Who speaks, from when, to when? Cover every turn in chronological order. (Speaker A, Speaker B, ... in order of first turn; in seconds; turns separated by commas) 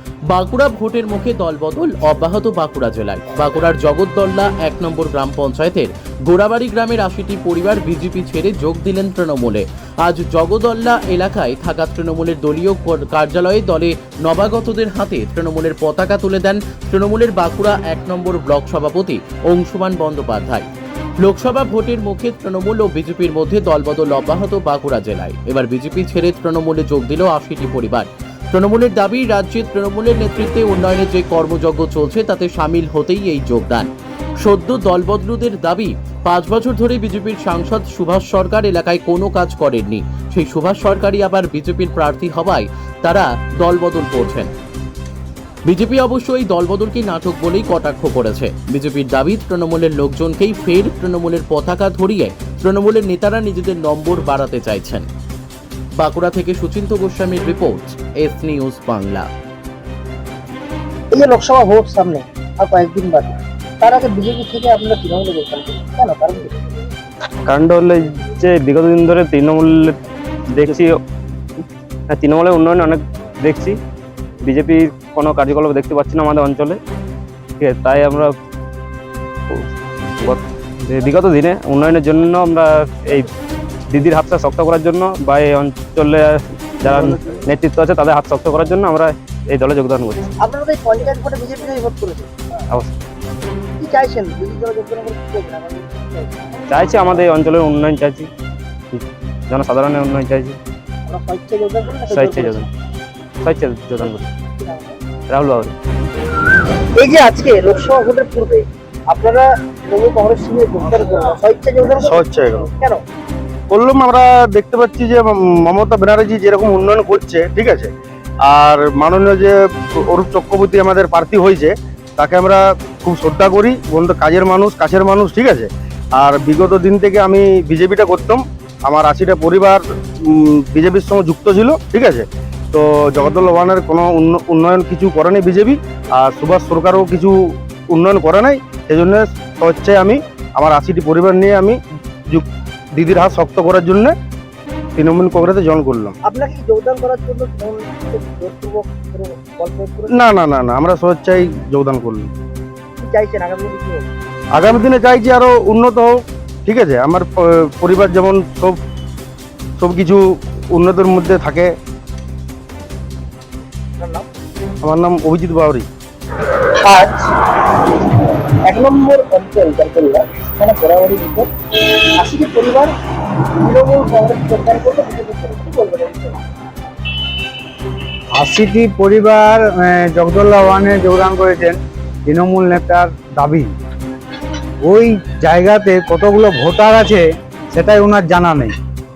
Speaker A: 0.3-20.7, Speaker A: 21.2-44.5, Speaker A: 45.7-55.1, Speaker A: 56.0-59.3, Speaker B: 61.1-66.6, Speaker C: 67.5-70.0, Speaker C: 70.6-71.0, Speaker C: 71.6-73.8, Speaker C: 74.4-76.8, Speaker C: 77.6-78.3, Speaker C: 79.5-83.3, Speaker C: 83.9-90.3, Speaker B: 90.4-92.3, Speaker C: 92.7-93.0, Speaker B: 93.8-96.5, Speaker C: 96.7-98.3, Speaker C: 98.9-100.6, Speaker B: 101.1-102.7, Speaker C: 102.1-102.7, Speaker C: 103.4-104.3, Speaker B: 104.4-105.0, Speaker C: 105.3-105.7, Speaker B: 106.9-113.0, Speaker D: 112.0-112.7, Speaker D: 113.7-117.9, Speaker D: 118.4-141.8, Speaker D: 142.3-144.1, Speaker D: 145.0-146.2, Speaker B: 146.2-150.2, Speaker D: 150.1-152.3, Speaker B: 153.0-154.1, Speaker D: 154.5-158.8, Speaker D: 159.8-161.7, Speaker B: 164.0-164.3, Speaker D: 164.8-165.9, Speaker B: 166.8-167.6, Speaker B: 168.6-172.9, Speaker B: 173.6-176.4, Speaker E: 178.3-183.7, Speaker E: 184.8-188.7